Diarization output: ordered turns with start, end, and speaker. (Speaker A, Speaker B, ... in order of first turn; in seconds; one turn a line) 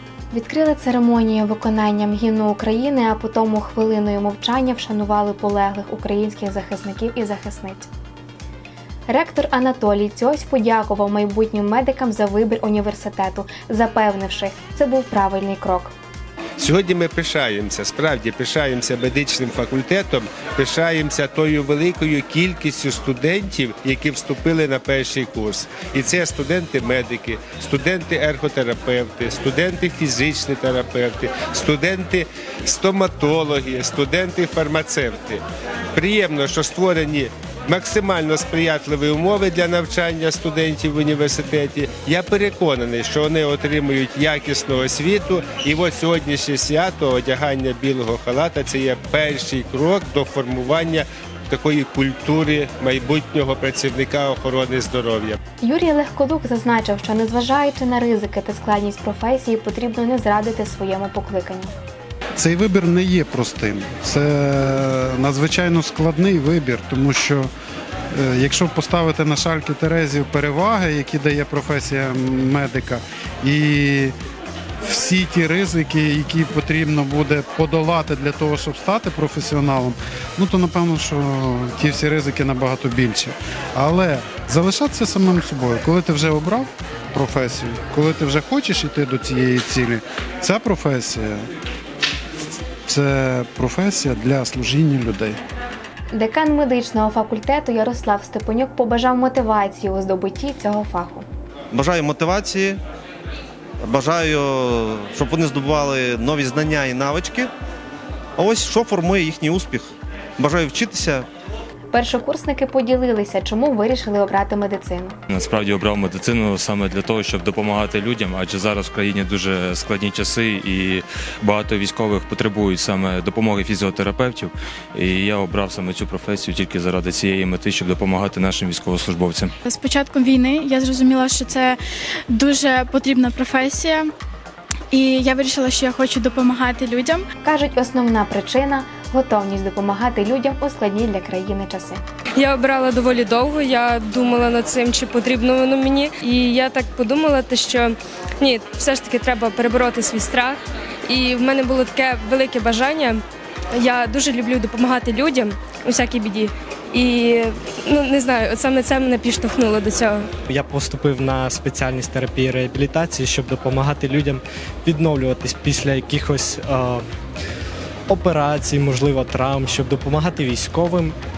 Speaker A: 0.3-7.9
Speaker A: 9.1-15.9
Speaker B: 16.6-35.4
Speaker B: 36.0-55.4
Speaker A: 55.6-61.8
Speaker C: 62.4-67.5
Speaker C: 68.1-74.2
Speaker C: 74.8-91.5
Speaker C: 92.9-95.4
Speaker A: 96.1-101.2
Speaker D: 101.7-102.8
Speaker D: 103.8-107.5
Speaker D: 108.4-111.3
Speaker A: 111.9-115.2
Speaker E: 115.3-129.5
Speaker F: 129.7-131.8
Speaker F: 132.3-134.1
Speaker F: 134.9-137.2
Speaker A: 137.4-142.0
Speaker G: 142.4-153.2
Speaker G: 153.8-160.3
Speaker H: 160.5-167.1
Speaker H: 168.1-171.2